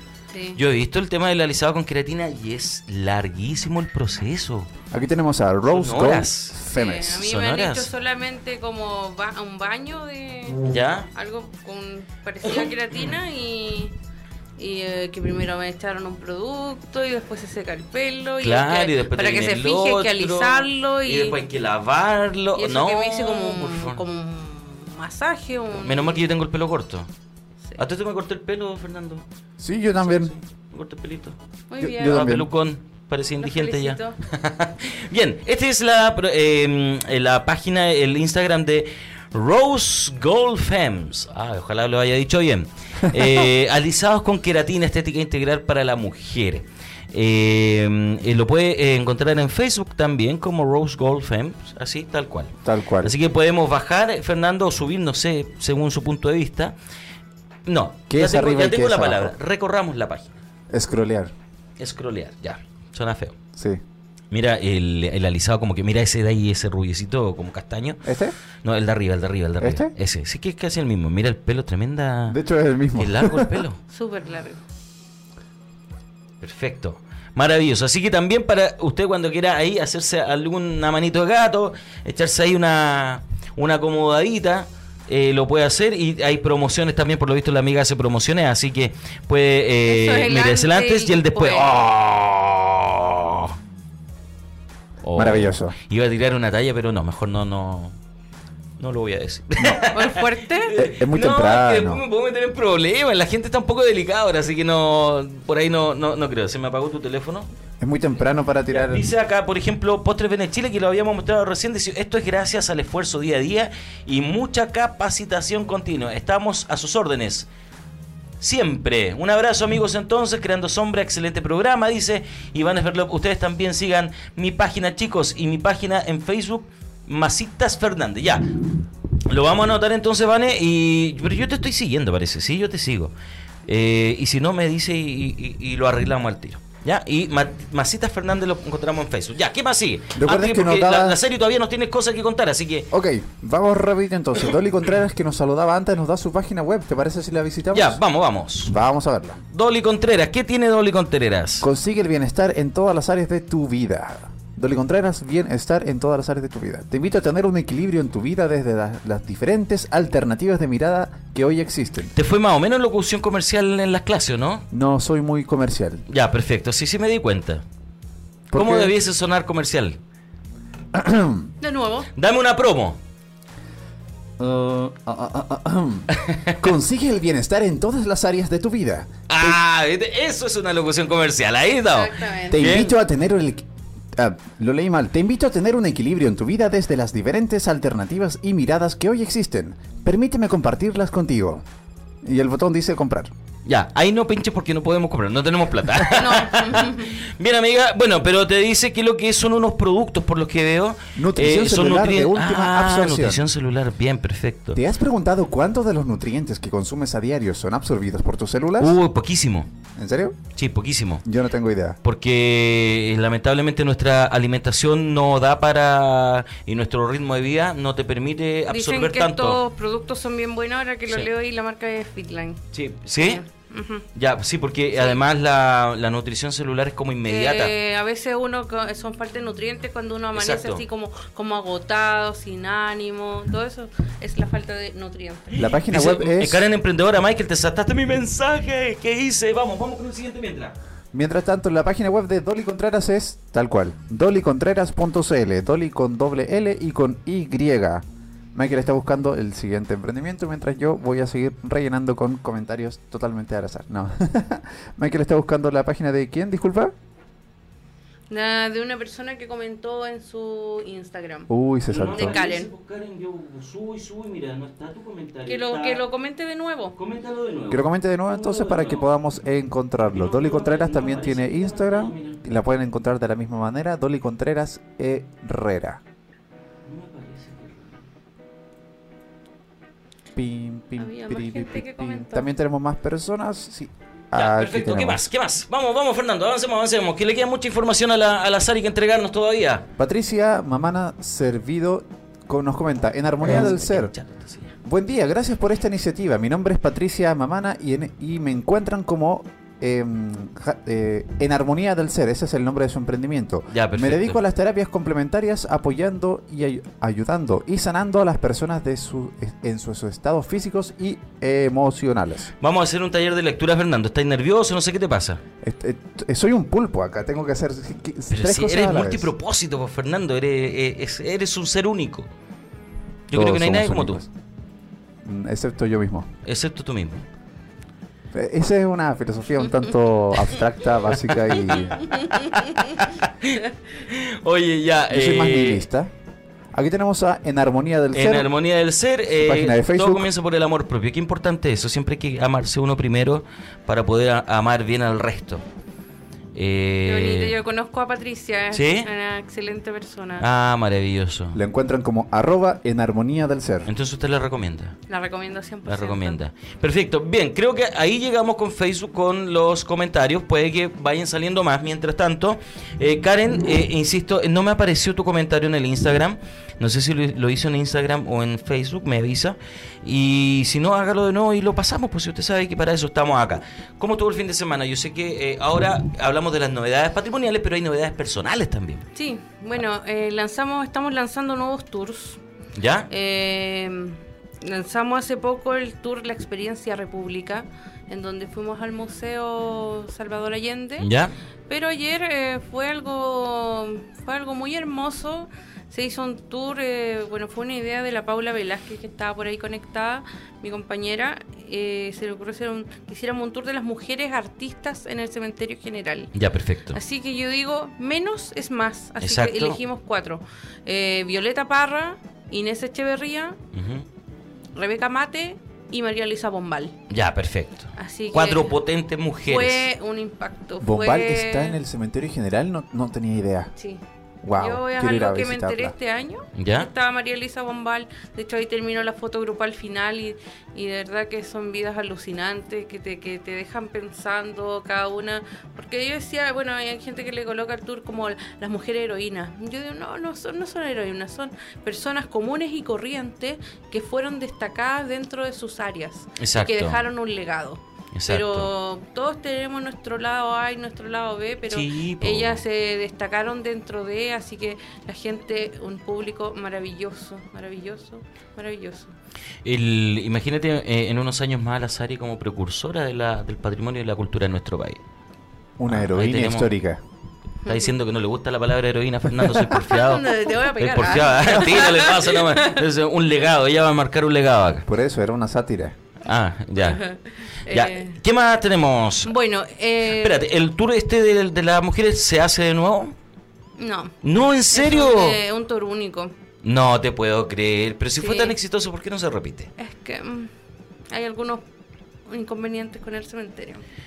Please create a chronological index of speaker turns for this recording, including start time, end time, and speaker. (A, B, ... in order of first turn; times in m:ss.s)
0:00.3-0:00.6 A
0:00.6-0:04.7 B
0:04.9-0:07.2 C
0:05.6-0:07.9 B
0:06.7-0:10.6 A
0:10.6-0:11.1 B
0:11.1-0:13.9 A
0:12.4-0:12.7 B
0:14.6-0:21.4 A
0:18.4-0:24.0 B
0:22.5-0:26.3 A
0:25.8-0:27.1 B
0:27.8-0:29.2 B
0:29.6-0:30.3 C
0:30.0-0:31.4 B
0:31.7-0:32.3 A
0:31.8-0:32.5 C
0:32.0-0:56.7 B
0:33.4-0:34.2 A
0:52.6-0:53.1 C
0:57.6-1:00.4 B
0:58.1-0:59.3 C
1:00.7-1:01.3 C
1:01.8-1:03.4 B
1:03.6-1:03.8 C
1:04.3-1:08.0 B
1:08.0-1:08.4 C
1:08.6-1:12.4 B
1:09.6-1:09.9 C
1:12.3-1:13.6 C
1:12.9-1:13.8 B
1:13.9-1:14.6 A
1:16.4-1:33.5 B
1:29.9-1:31.8 A
1:35.0-1:37.9 B
1:35.2-1:35.8 C
1:38.8-1:47.5 B
1:39.8-1:40.7 A
1:40.7-1:42.0 C
1:47.8-1:49.0 C
1:48.7-1:57.5 B
1:58.4-2:08.6 B
2:09.3-2:13.1 B
2:13.6-2:22.9 B
2:20.1-2:21.2 C
2:22.9-2:28.0 C
2:27.7-2:28.7 B
2:28.6-2:29.4 C
2:29.5-2:31.7 B
2:31.6-2:42.1 C
2:42.1-2:44.7 B
2:44.7-2:46.0 C
2:46.1-2:47.6 B
2:48.5-2:48.9 C
2:48.5-2:50.0 B
2:50.9-2:51.5 C
2:51.6-2:52.1 A
2:52.2-2:53.0 B
2:54.4-2:59.6 C
2:56.1-2:56.6 B
2:59.3-3:02.9 B
3:01.9-3:02.7 A
3:02.5-3:03.6 C
3:04.2-3:11.6 C
3:12.2-3:13.3 C
3:13.6-3:24.8 B
3:16.1-3:17.2 A
3:21.2-3:23.4 C
3:24.7-3:29.0 C
3:28.8-3:29.7 B
3:30.0-3:30.4 C
3:30.6-3:31.2 B
3:31.2-3:32.0 C
3:32.0-3:39.6 B
3:38.7-3:42.6 A
3:42.7-3:43.4 B
3:43.2-3:44.0 A
3:44.1-3:47.7 B
3:44.9-3:45.2 A
3:47.2-3:55.4 A
3:50.3-3:50.8 B
3:55.5-4:00.7 B
3:55.5-3:56.6 C
4:01.1-4:16.9 C
4:18.3-4:21.5 A
4:21.5-4:22.4 C
4:21.9-4:26.0 B
4:22.1-4:22.7 A
4:25.4-4:27.0 A
4:27.0-4:29.1 B
4:27.7-4:36.0 C
4:30.1-4:32.4 B
4:36.8-4:38.0 B
4:40.4-4:45.2 C
4:41.0-4:42.5 A
4:44.3-4:49.9 B
4:50.0-4:54.1 C
4:53.4-4:54.7 B
4:54.8-5:12.5 C
5:03.7-5:04.4 B
5:12.6-5:15.4 B
5:15.6-5:19.3 C
5:18.3-5:22.3 B
5:23.3-5:24.2 B
5:23.3-5:24.3 C
5:25.2-5:26.3 C
5:26.4-5:27.2 B
5:28.3-5:32.1 C
5:31.4-5:35.8 B
5:32.2-5:32.5 A
5:35.1-5:36.1 C
5:36.7-5:38.5 C
5:38.1-5:45.6 B
5:39.3-5:40.3 C
5:46.5-5:47.5 B
5:47.0-5:50.4 A
5:48.7-5:49.1 B
5:50.4-5:51.6 B
5:51.5-5:53.9 C
5:53.9-5:55.0 B
5:55.1-5:56.4 A
5:55.8-6:19.0 B
6:19.1-6:22.4 A
6:22.8-6:23.1 B
6:23.1-6:31.1 A
6:31.0-6:31.3 B
6:31.7-6:46.3 A
6:46.3-6:47.0 B
6:46.9-6:53.6 A
6:49.2-6:49.8 B
6:53.7-6:54.0 B
6:54.8-6:57.0 A
6:57.1-6:59.9 B
6:58.0-6:58.8 A
6:59.4-7:01.8 A
7:00.8-7:03.7 C
7:03.8-7:04.0 A
7:04.4-7:05.9 C
7:04.5-7:39.1 A
7:06.6-7:06.9 B
7:26.4-7:27.0 B
7:28.1-7:28.7 B
7:31.7-7:32.6 B
7:39.6-7:45.0 B
7:45.8-7:47.0 C
7:45.9-7:46.7 B
7:47.6-7:47.9 A
7:47.6-7:54.8 B
7:49.7-7:52.8 A
7:54.8-7:56.0 C
7:56.2-7:57.0 B
7:56.8-7:58.2 A
7:57.7-7:59.3 B
7:59.2-8:00.4 A
8:00.1-8:03.1 B
8:03.8-8:04.2 A
8:04.2-8:05.4 B
8:04.7-8:06.3 A
8:06.6-8:09.7 B
8:08.2-8:08.5 A
8:09.8-8:10.5 A
8:11.1-8:11.6 A
8:12.2-8:13.8 A